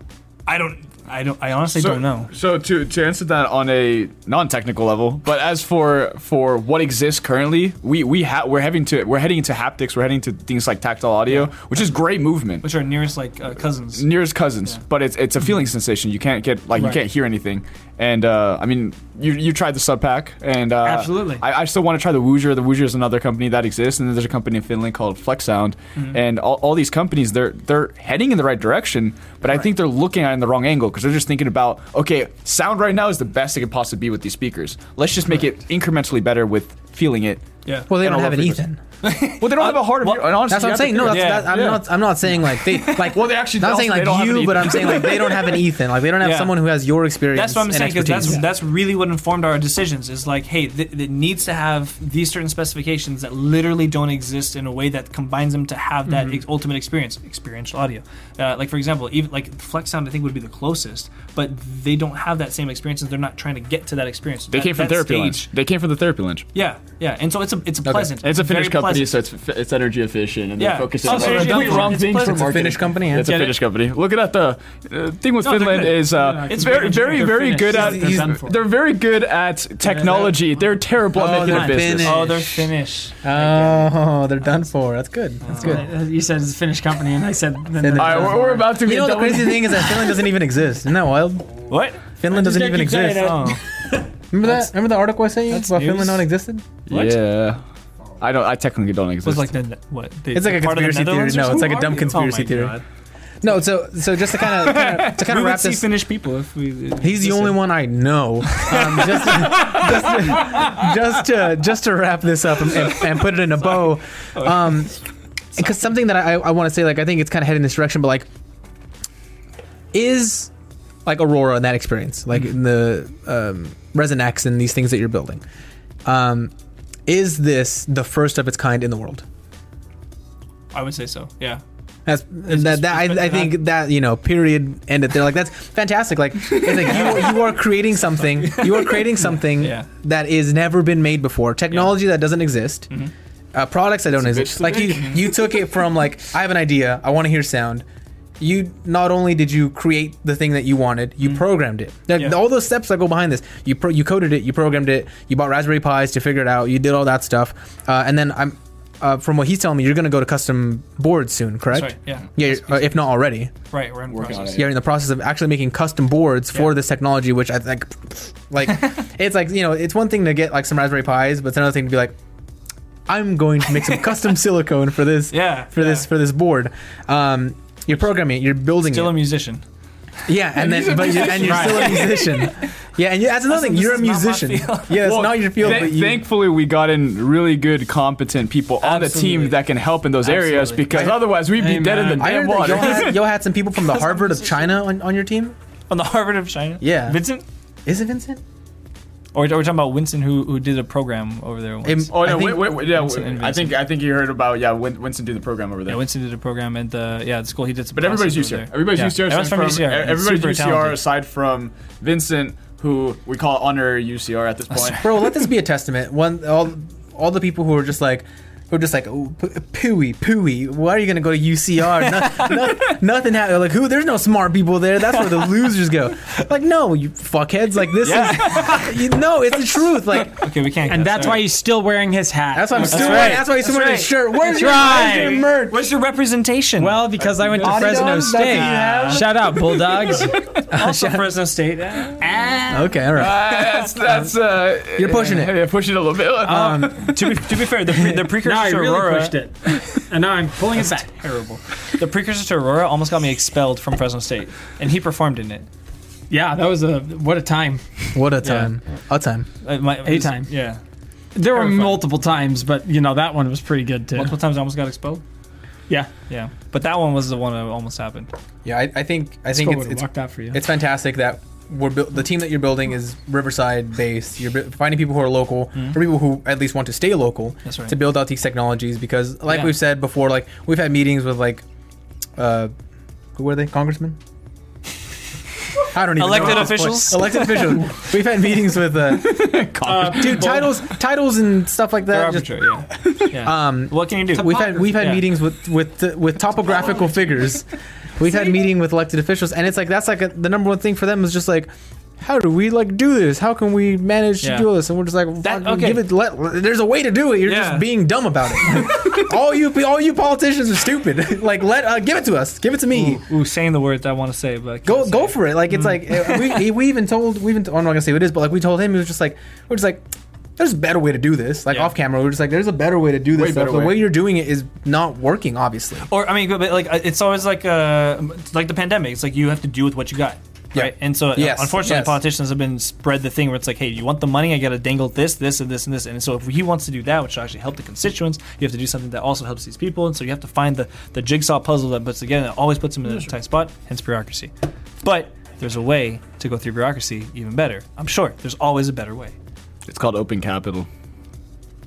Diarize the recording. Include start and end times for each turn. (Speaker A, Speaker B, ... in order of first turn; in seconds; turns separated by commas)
Speaker A: 0.5-2.3, Speaker B: 1.8-12.7, Speaker A: 12.6-14.1, Speaker B: 14.0-38.6, Speaker C: 20.8-21.4, Speaker D: 37.9-38.8, Speaker A: 39.0-41.6, Speaker B: 39.4-41.9, Speaker D: 40.5-48.4, Speaker A: 42.7-43.1, Speaker B: 42.8-45.5, Speaker A: 46.2-46.6, Speaker A: 47.3-65.5, Speaker B: 64.5-66.5, Speaker A: 66.5-69.2, Speaker D: 67.8-68.1, Speaker B: 68.2-82.3, Speaker A: 70.6-72.7, Speaker C: 71.1-72.0, Speaker D: 71.8-73.3, Speaker A: 73.2-73.6, Speaker A: 75.4-78.6, Speaker C: 76.1-77.3, Speaker D: 77.7-78.4, Speaker C: 79.8-80.4, Speaker D: 81.1-82.7, Speaker A: 81.2-83.9, Speaker D: 83.2-85.9, Speaker A: 85.4-85.8, Speaker C: 85.6-88.8, Speaker D: 87.8-91.5, Speaker B: 88.0-89.9, Speaker A: 91.7-92.0, Speaker D: 92.2-93.5, Speaker C: 92.3-94.1, Speaker A: 93.1-93.6, Speaker D: 94.3-96.7, Speaker A: 95.5-96.2, Speaker A: 96.9-97.2, Speaker B: 96.9-97.6, Speaker B: 98.2-99.5, Speaker A: 99.2-102.8, Speaker D: 100.3-102.8, Speaker C: 101.4-102.0, Speaker D: 103.4-105.9, Speaker A: 104.4-107.7, Speaker D: 107.0-115.0, Speaker A: 108.5-110.9, Speaker A: 114.3-114.9, Speaker D: 115.6-118.3, Speaker D: 119.9-120.5, Speaker D: 121.0-125.4, Speaker D: 126.1-126.5, Speaker D: 127.1-129.2, Speaker A: 130.7-131.6, Speaker D: 132.1-142.9, Speaker A: 132.5-133.6, Speaker B: 136.7-137.2, Speaker A: 136.8-137.5, Speaker A: 138.2-139.9, Speaker A: 141.7-141.9, Speaker D: 143.5-147.8, Speaker B: 144.2-145.5, Speaker A: 144.9-145.2, Speaker D: 148.4-163.5, Speaker A: 161.7-163.1, Speaker A: 163.7-164.7, Speaker B: 164.1-164.7, Speaker D: 164.6-172.2, Speaker D: 173.1-179.2, Speaker A: 175.3-176.1, Speaker A: 178.9-179.6, Speaker D: 180.3-186.3, Speaker B: 180.6-182.1, Speaker A: 180.9-182.7, Speaker C: 181.3-181.9, Speaker A: 183.5-185.9, Speaker B: 185.0-193.2, Speaker A: 188.8-189.6, Speaker A: 190.2-191.2, Speaker D: 190.9-191.2, Speaker C: 191.5-192.4, Speaker D: 192.2-195.6, Speaker A: 192.8-193.1, Speaker A: 193.8-194.7, Speaker A: 195.9-197.4, Speaker D: 196.8-197.2, Speaker D: 197.9-198.4, Speaker A: 199.3-203.8, Speaker D: 201.8-202.8, Speaker B: 202.1-206.0, Speaker A: 205.9-211.0, Speaker B: 207.9-215.2, Speaker D: 215.0-230.5, Speaker A: 228.0-229.1, Speaker A: 230.3-231.5, Speaker C: 230.9-233.5, Speaker D: 232.5-235.9, Speaker A: 232.8-237.1, Speaker C: 234.4-235.5, Speaker C: 236.8-240.4, Speaker B: 237.2-238.1, Speaker D: 237.6-239.6, Speaker A: 237.6-239.3, Speaker A: 240.1-242.3, Speaker D: 240.2-241.2, Speaker C: 242.2-243.0, Speaker D: 242.7-244.3, Speaker B: 243.1-247.5, Speaker D: 244.9-245.6, Speaker D: 246.4-247.0, Speaker A: 246.9-249.3, Speaker C: 248.4-251.1, Speaker A: 250.8-255.7, Speaker C: 256.3-258.2, Speaker D: 258.1-259.5, Speaker A: 258.4-258.7, Speaker A: 259.6-260.8, Speaker C: 260.1-260.5, Speaker C: 261.4-264.4, Speaker A: 261.5-262.1, Speaker A: 264.2-265.2, Speaker A: 266.3-268.3, Speaker D: 268.6-281.6, Speaker C: 269.5-270.6, Speaker A: 277.6-278.0, Speaker D: 282.4-282.7, Speaker D: 283.4-284.2, Speaker D: 285.9-297.7, Speaker A: 286.1-287.9, Speaker B: 289.0-290.8, Speaker C: 289.8-290.6, Speaker A: 292.1-295.2, Speaker C: 294.4-294.8, Speaker D: 298.2-313.2, Speaker A: 304.4-304.7, Speaker A: 305.4-306.1, Speaker A: 307.4-307.9, Speaker A: 308.6-309.2, Speaker A: 312.9-316.6, Speaker D: 314.9-320.1, Speaker D: 320.6-326.1, Speaker B: 323.3-324.1, Speaker A: 326.1-344.5, Speaker D: 330.7-332.2, Speaker A: 345.0-349.4, Speaker B: 349.9-350.9